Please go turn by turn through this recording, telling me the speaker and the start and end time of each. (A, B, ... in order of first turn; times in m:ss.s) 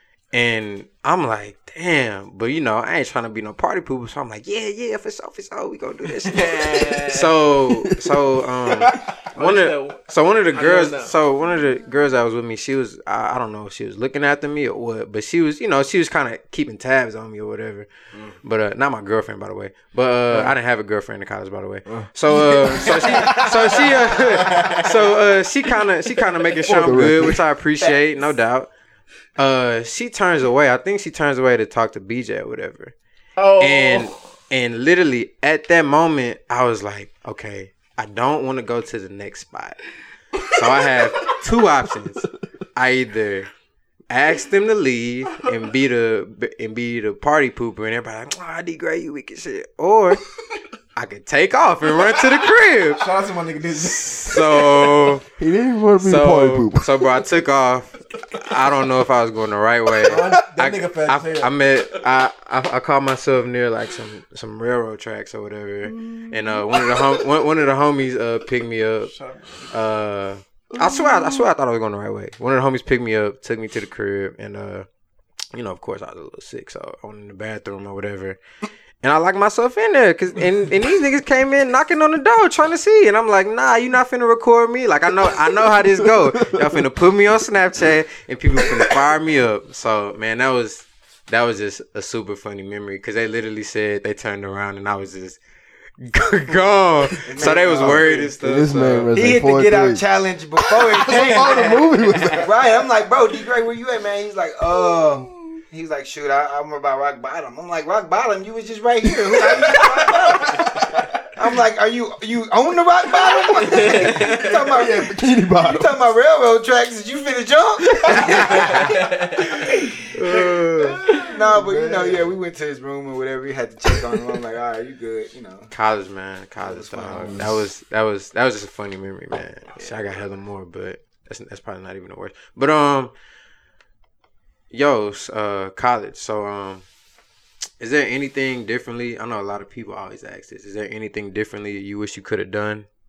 0:00.3-0:28.7 A
0:06.3-0:07.4 B
0:08.9-0:11.2 B
0:18.1-0:18.4 C
0:20.3-0:20.6 B
0:21.9-0:23.5 C
0:22.8-0:24.9 B
0:26.6-0:27.4 C
0:27.8-0:28.3 D
0:29.4-0:32.9 A
0:33.4-0:34.1 B
0:33.6-0:39.8 A
0:40.4-0:43.5 A
0:44.1-0:50.2 A
0:51.0-0:53.1 A
0:52.4-0:55.1 B
0:53.9-0:55.3 A
0:55.3-0:56.9 C
0:56.0-1:09.1 A
1:00.0-1:01.5 B
1:05.9-1:06.8 C
1:09.1-1:09.7 B
1:09.7-1:14.9 A
1:10.7-1:11.5 C
1:15.5-1:18.4 A
1:19.0-1:35.4 A
1:25.4-1:26.6 C
1:28.6-1:28.9 C
1:36.0-1:39.3 A
1:37.2-1:38.3 D
1:37.5-1:40.0 C
1:37.8-1:38.3 B
1:39.1-1:59.9 D
1:40.9-1:42.5 C
1:41.1-1:42.4 B
1:49.4-1:51.2 C
1:49.8-1:50.2 B
1:53.3-1:56.0 C
1:53.5-1:54.7 B
1:58.1-1:58.7 C
1:58.3-1:59.6 B
2:00.1-2:01.0 A
2:00.8-2:02.4 C
2:01.1-2:05.7 D
2:05.7-2:13.1 A
2:06.6-2:07.4 D
2:07.1-2:07.7 C
2:14.7-2:16.8 A
2:17.8-2:22.9 A